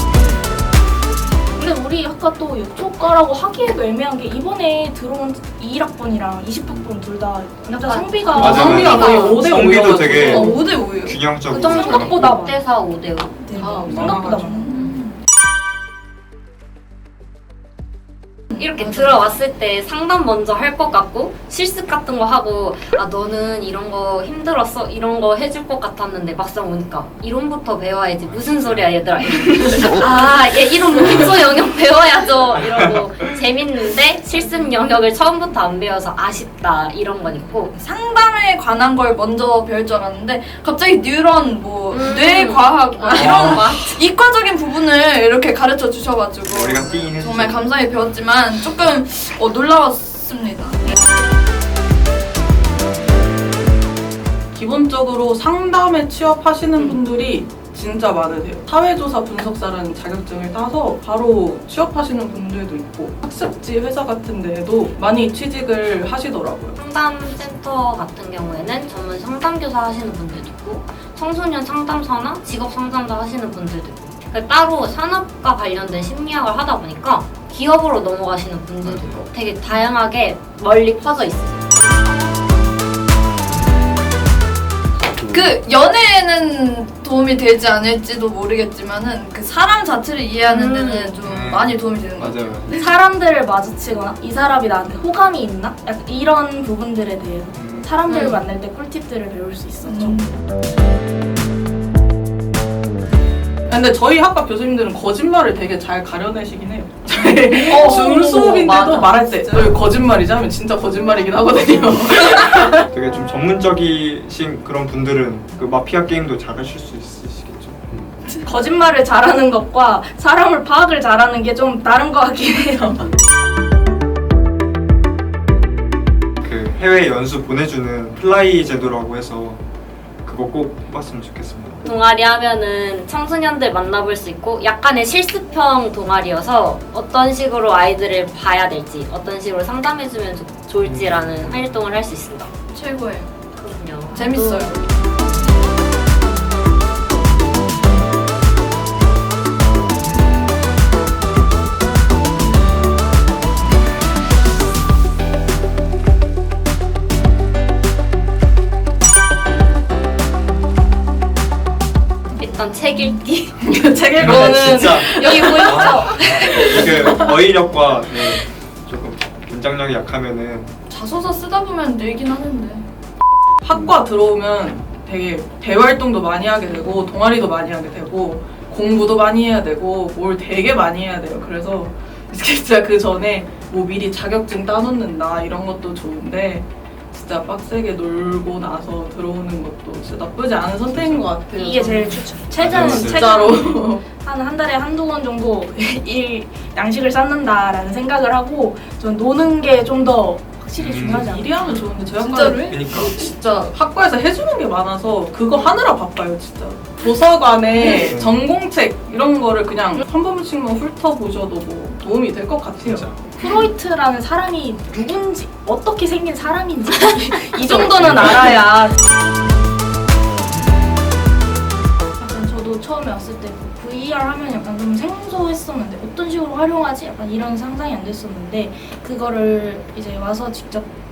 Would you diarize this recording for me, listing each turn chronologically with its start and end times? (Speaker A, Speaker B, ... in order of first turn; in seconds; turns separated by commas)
Speaker A: 1.6-9.1, Speaker B: 7.7-9.4, Speaker C: 8.3-10.7, Speaker D: 8.4-12.4, Speaker E: 10.2-12.5, Speaker B: 11.5-14.1, Speaker A: 11.7-12.3, Speaker A: 13.4-15.2, Speaker C: 13.6-14.6, Speaker E: 14.5-15.0, Speaker B: 18.5-37.8, Speaker D: 28.2-28.9, Speaker E: 37.8-50.8, Speaker B: 41.9-43.8, Speaker D: 43.1-43.6, Speaker D: 46.5-47.6, Speaker C: 54.5-66.8, Speaker B: 66.8-81.6, Speaker D: 78.8-79.2, Speaker E: 85.3-92.9, Speaker B: 90.5-91.2, Speaker D: 91.2-92.7, Speaker A: 92.8-100.3, Speaker D: 97.5-97.9, Speaker B: 98.1-98.4, Speaker E: 99.8-100.3, Speaker C: 103.7-112.9, Speaker E: 107.7-109.7, Speaker A: 107.7-108.2, Speaker D: 112.9-117.8, Speaker A: 118.3-123.1, Speaker D: 126.4-129.6, Speaker D: 130.2-131.8, Speaker B: 131.8-142.5, Speaker D: 140.8-141.7, Speaker E: 142.7-143.3, Speaker B: 143.6-144.6, Speaker E: 144.1-144.8, Speaker A: 144.4-144.6, Speaker B: 162.4-163.6, Speaker C: 163.6-166.0, Speaker D: 164.2-170.7, Speaker E: 164.2-167.2, Speaker E: 170.9-172.9, Speaker C: 173.6-194.0, Speaker D: 190.9-191.2, Speaker A: 191.6-201.6, Speaker D: 192.6-193.3, Speaker D: 200.8-201.3, Speaker C: 201.0-202.8, Speaker E: 202.1-203.8, Speaker D: 202.7-203.1, Speaker C: 203.7-213.5, Speaker D: 208.0-208.4, Speaker D: 212.8-213.3, Speaker A: 213.4-218.9, Speaker E: 217.5-217.9, Speaker A: 222.2-230.9